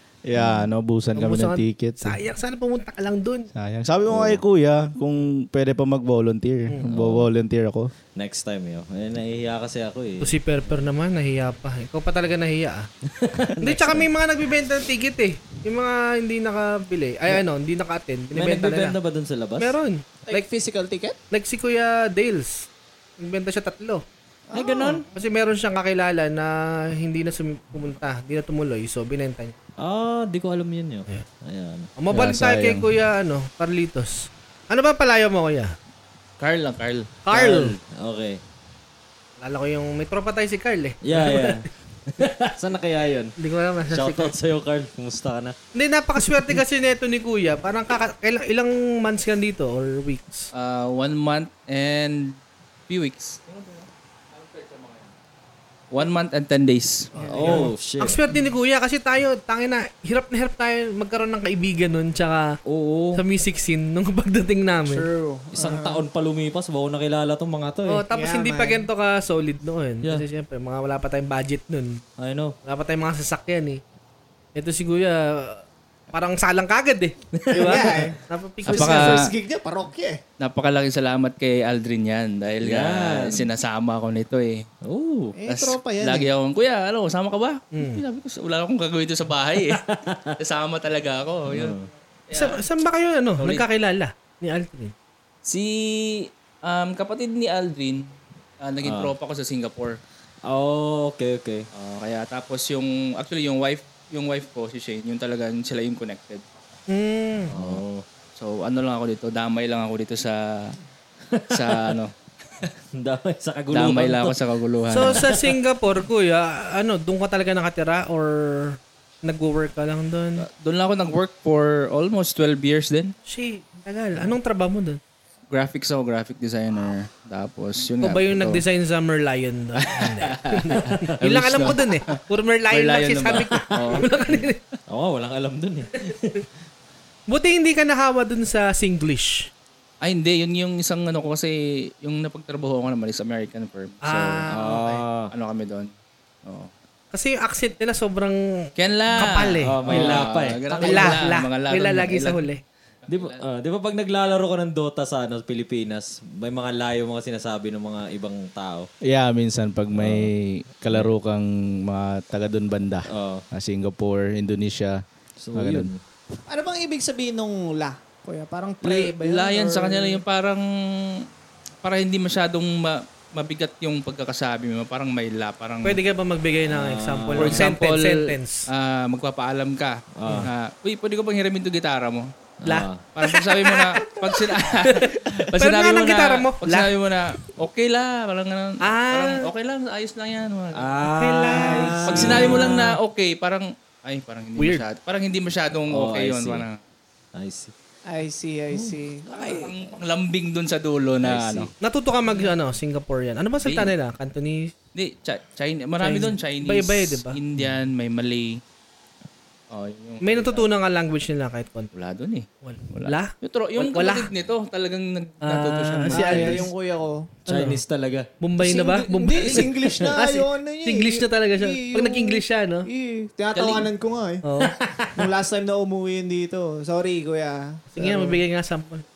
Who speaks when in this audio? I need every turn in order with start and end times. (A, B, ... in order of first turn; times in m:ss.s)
0:00.3-0:02.2 A
0:00.4-0:00.7 B
0:01.1-0:03.5 C
0:03.5-0:07.9 A
0:04.1-0:04.4 B
0:06.9-0:07.3 B
0:08.2-0:10.8 B
0:10.2-0:12.9 C
0:13.1-0:14.1 B
0:13.6-0:19.0 C
0:18.3-0:19.8 B
0:19.6-0:20.5 C
0:20.3-0:21.2 D
0:21.3-0:22.7 C
0:23.2-0:24.0 C
0:24.5-0:25.0 D
0:24.5-0:25.0 B
0:25.1-0:29.6 C
0:29.8-0:32.9 B
0:32.0-0:35.8 C
0:36.4-0:37.2 E
0:37.3-0:37.8 C
0:37.3-0:38.4 B
0:39.4-0:41.6 C
0:41.0-0:43.3 B
0:43.4-0:44.3 C
0:43.9-0:45.6 B
0:45.8-0:50.5 C
0:50.5-0:52.4 E
0:52.9-0:55.1 E
0:55.9-0:57.1 E
0:57.2-0:57.7 D
0:57.2-0:58.2 B
0:57.4-1:02.6 C
1:02.6-1:03.2 B
1:03.2-1:05.1 C
1:04.8-1:06.0 D
1:05.5-1:08.0 B
1:07.9-1:12.0 C
1:08.1-1:08.8 D
1:12.2-1:12.6 B
1:12.6-1:13.8 C
1:14.5-1:19.3 C
1:17.3-1:17.8 B
1:17.5-1:20.2 D
1:18.7-1:19.3 E
1:20.4-1:24.7 E
1:22.6-1:23.5 B
1:24.8-1:25.4 B
1:25.4-1:26.3 D
1:25.5-1:29.8 E
1:27.7-1:28.0 C
1:29.7-1:30.4 B
1:30.4-1:32.6 E
1:31.5-1:31.9 B
1:32.3-1:34.9 C
1:33.4-1:33.6 E
1:35.4-1:38.1 E
1:38.6-1:40.0 E
1:38.8-1:39.1 B
1:40.5-1:41.7 B
1:41.7-1:46.4 E
1:46.9-1:47.5 C
1:47.5-1:48.0 B
1:47.5-1:47.8 E
1:48.4-1:50.8 E
1:51.3-1:51.9 B
1:51.5-1:52.1 E
1:52.9-1:54.4 B
1:53.7-1:55.3 E
1:54.9-2:00.5 C
1:54.9-1:55.6 B
2:00.4-2:03.1 E
2:03.3-2:05.0 C
2:05.5-2:08.6 E
2:08.0-2:14.6 C
2:09.8-2:12.2 E
2:12.7-2:14.5 E
2:13.7-2:14.1 B
2:14.9-2:16.4 B
2:17.3-2:19.5 C
2:20.0-2:24.4 E
2:24.0-2:25.0 C
2:24.5-2:25.3 B
2:25.3-2:25.9 E
2:26.4-2:26.7 E
2:27.1-2:30.2 C
2:28.8-2:32.4 E
2:29.3-2:31.2 B
2:30.8-2:32.6 C
2:33.1-2:33.4 E
2:33.1-2:38.9 B
2:39.0-2:45.0 A
2:40.0-2:40.3 B
2:40.9-2:41.1 B
2:43.1-2:43.4 B
2:45.4-2:46.0 B
2:45.5-2:45.9 A
2:46.5-2:50.2 D
2:48.8-2:51.2 E
2:51.8-2:56.0 E
2:55.8-2:58.7 C
2:56.7-2:57.7 B
2:57.4-3:02.3 E
3:00.2-3:00.5 B
3:02.6-3:03.0 B
3:02.7-3:04.1 C
3:03.2-3:10.9 E
3:04.7-3:06.9 C
3:08.8-3:09.5 C
3:10.7-3:13.0 B
3:11.1-3:12.3 C
3:11.5-3:12.7 D
3:12.1-3:16.8 E
3:14.6-3:14.8 C
3:15.9-3:16.7 B
3:17.3-3:17.7 B
3:18.1-3:19.7 D
3:19.3-3:21.7 E
3:21.2-3:21.7 B
3:21.8-3:24.7 C
3:23.6-3:23.9 E
3:25.0-3:28.6 E
3:26.0-3:27.4 C
3:29.7-3:30.7 E
3:30.2-3:31.9 C
3:31.9-3:36.6 E
3:32.6-3:34.3 C
3:35.4-3:36.7 C
3:36.1-3:37.3 D
3:37.5-3:38.3 B
3:37.5-3:37.8 C
3:38.4-3:42.9 C
3:38.6-3:44.4 D
3:39.5-3:40.2 B
3:43.5-3:43.9 E
3:44.4-3:44.8 C
3:44.7-3:45.3 B
3:45.1-3:48.4 D
3:47.9-3:49.0 C